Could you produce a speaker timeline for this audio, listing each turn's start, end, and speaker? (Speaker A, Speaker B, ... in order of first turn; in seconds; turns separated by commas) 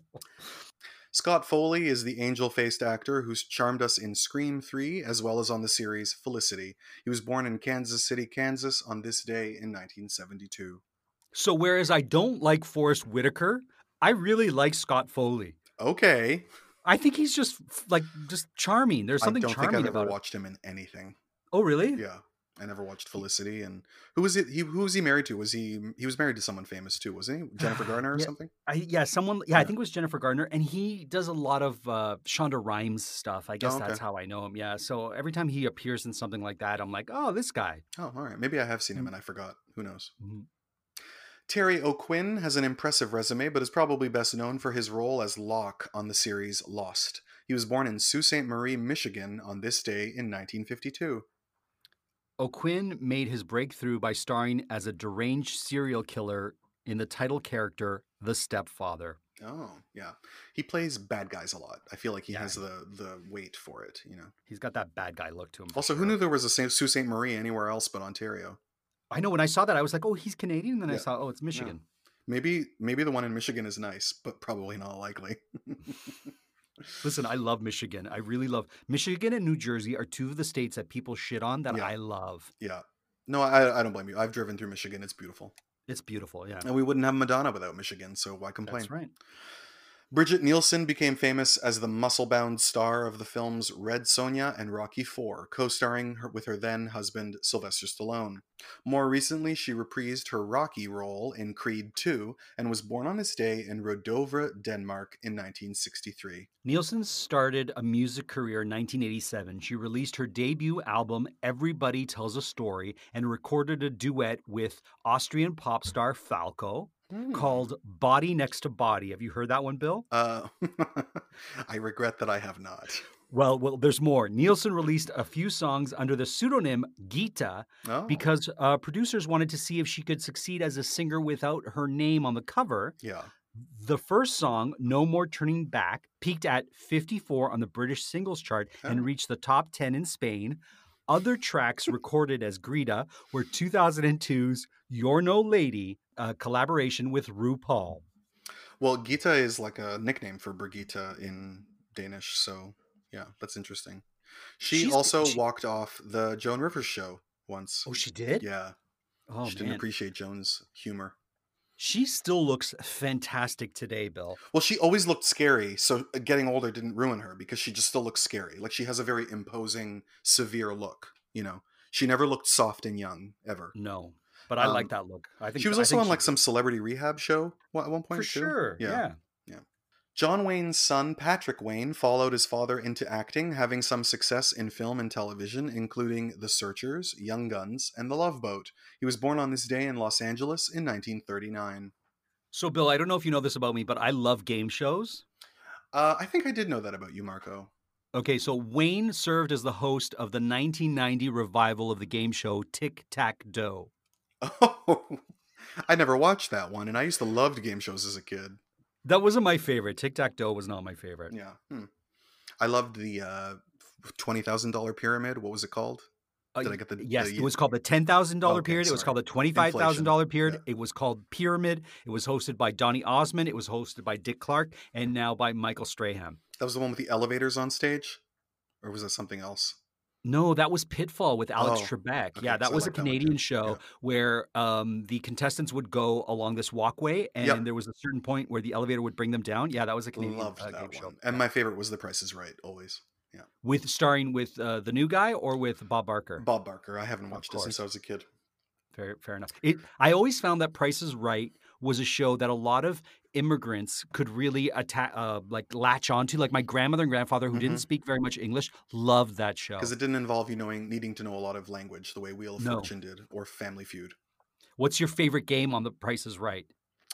Speaker A: 1.1-10.8, Speaker B: 11.3-15.6, Speaker A: 15.8-16.5, Speaker B: 16.9-20.1, Speaker A: 19.2-21.2, Speaker B: 21.5-22.0, Speaker A: 22.0-28.5, Speaker B: 27.6-37.8, Speaker A: 33.6-34.0, Speaker A: 38.0-40.1, Speaker B: 40.2-40.5, Speaker A: 41.5-51.3, Speaker B: 52.4-59.2, Speaker A: 59.4-64.3, Speaker B: 62.3-62.6, Speaker B: 64.5-66.2, Speaker A: 65.7-68.6, Speaker B: 69.1-71.8, Speaker A: 70.9-71.8, Speaker A: 72.3-76.3, Speaker B: 77.0-82.5, Speaker A: 82.6-85.5, Speaker B: 85.9-86.7, Speaker A: 86.6-88.9, Speaker B: 88.7-89.1, Speaker A: 90.1-106.5, Speaker B: 106.6-120.1, Speaker A: 117.1-117.7, Speaker A: 120.1-123.1, Speaker B: 123.3-133.0, Speaker A: 127.8-128.3, Speaker A: 133.0-133.3, Speaker B: 133.6-148.0, Speaker A: 148.8-154.0, Speaker A: 154.6-157.9, Speaker B: 154.7-155.4, Speaker B: 157.9-158.5, Speaker A: 158.4-158.8, Speaker B: 159.3-159.8, Speaker A: 159.4-161.2, Speaker B: 161.8-164.4, Speaker A: 164.5-173.7, Speaker B: 173.8-176.3, Speaker A: 174.6-174.9, Speaker A: 175.6-179.6, Speaker B: 178.1-179.2, Speaker A: 180.2-191.9, Speaker B: 192.5-195.2, Speaker A: 195.9-197.7, Speaker B: 198.1-203.9, Speaker A: 204.4-205.2, Speaker A: 205.8-208.6, Speaker B: 209.1-211.3, Speaker A: 211.3-211.9, Speaker A: 212.6-216.1, Speaker B: 216.6-226.4, Speaker A: 216.6-217.6, Speaker A: 218.4-220.6, Speaker A: 226.6-228.2, Speaker A: 228.8-229.8, Speaker B: 230.2-241.4, Speaker A: 231.6-233.8, Speaker A: 240.2-243.5, Speaker B: 243.6-246.4, Speaker A: 246.4-248.3, Speaker B: 247.3-247.8, Speaker B: 248.9-259.9, Speaker A: 257.5-257.9, Speaker A: 259.8-264.2, Speaker B: 262.6-262.9, Speaker B: 264.8-266.7